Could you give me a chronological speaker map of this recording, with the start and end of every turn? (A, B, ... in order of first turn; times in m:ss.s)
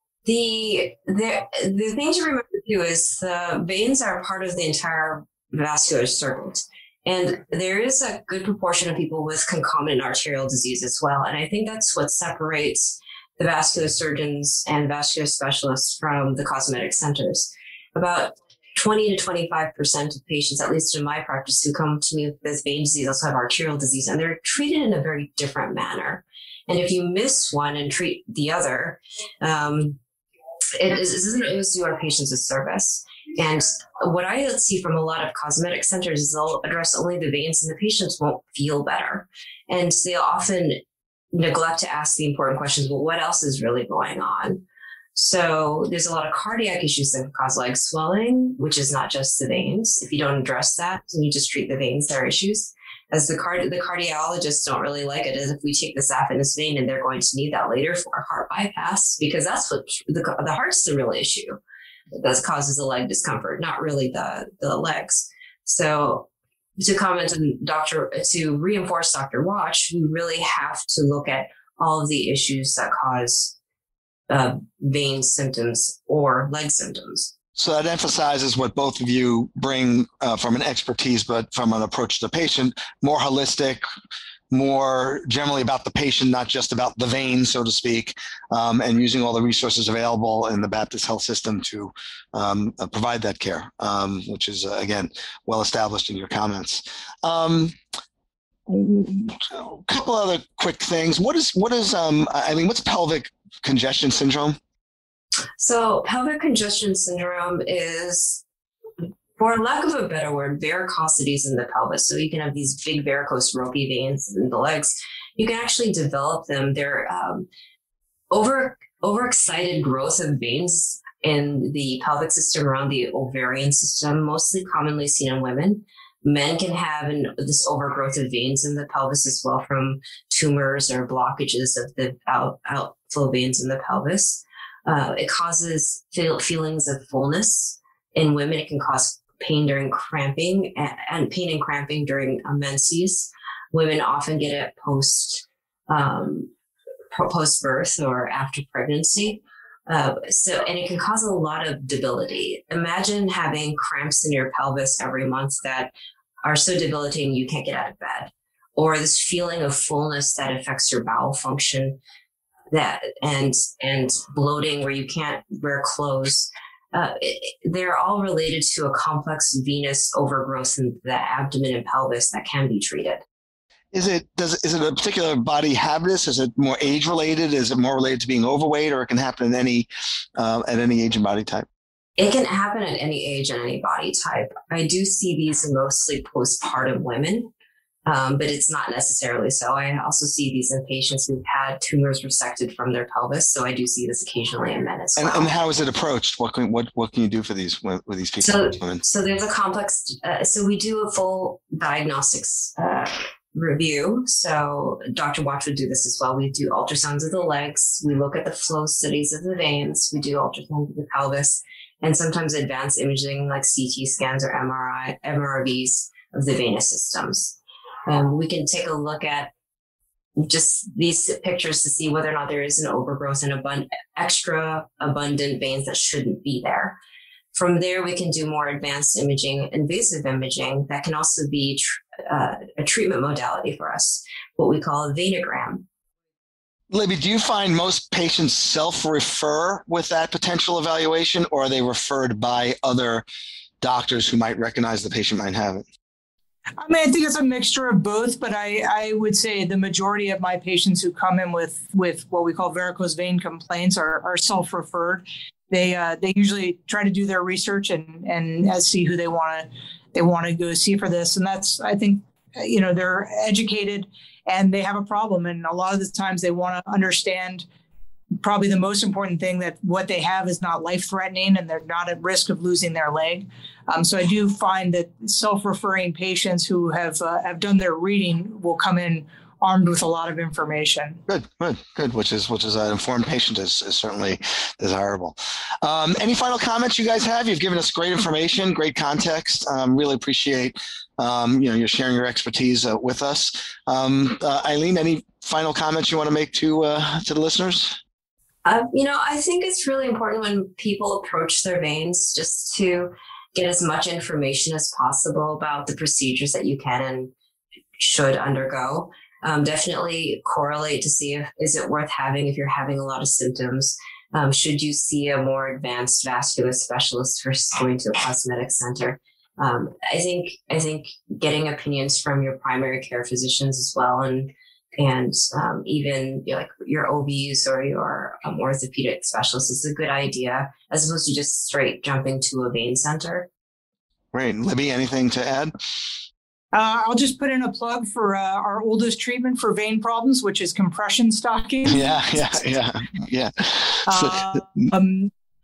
0:00.3-0:30.0 A
0:30.8-0:40.8 A
0:41.3-0:44.6 A
0:45.2-1:01.6 A
1:02.1-1:06.3 A
1:06.8-1:13.6 A
1:14.3-1:17.3 A
1:17.6-1:23.8 B
1:24.5-1:37.8 B
1:38.7-1:44.6 B
1:45.6-1:48.4 A
1:49.4-1:57.5 A
1:58.3-2:26.5 A
2:27.1-2:35.9 A
2:36.4-2:42.0 A
2:42.7-2:53.2 A
2:53.9-3:01.7 B
3:02.2-3:07.5 A
3:08.1-3:15.5 A
3:15.2-3:19.0 B
3:18.4-3:39.5 A
3:40.4-3:47.0 A
3:47.5-3:55.8 A
3:56.9-4:03.2 B
4:03.8-4:05.8 B
4:06.8-4:27.6 C
4:28.4-4:41.2 C
4:41.3-4:58.0 B
4:58.6-5:07.3 A
5:08.0-5:33.5 A
5:34.3-5:35.7 B
5:36.7-5:42.7 C
5:41.9-5:44.4 B
5:44.1-5:45.3 C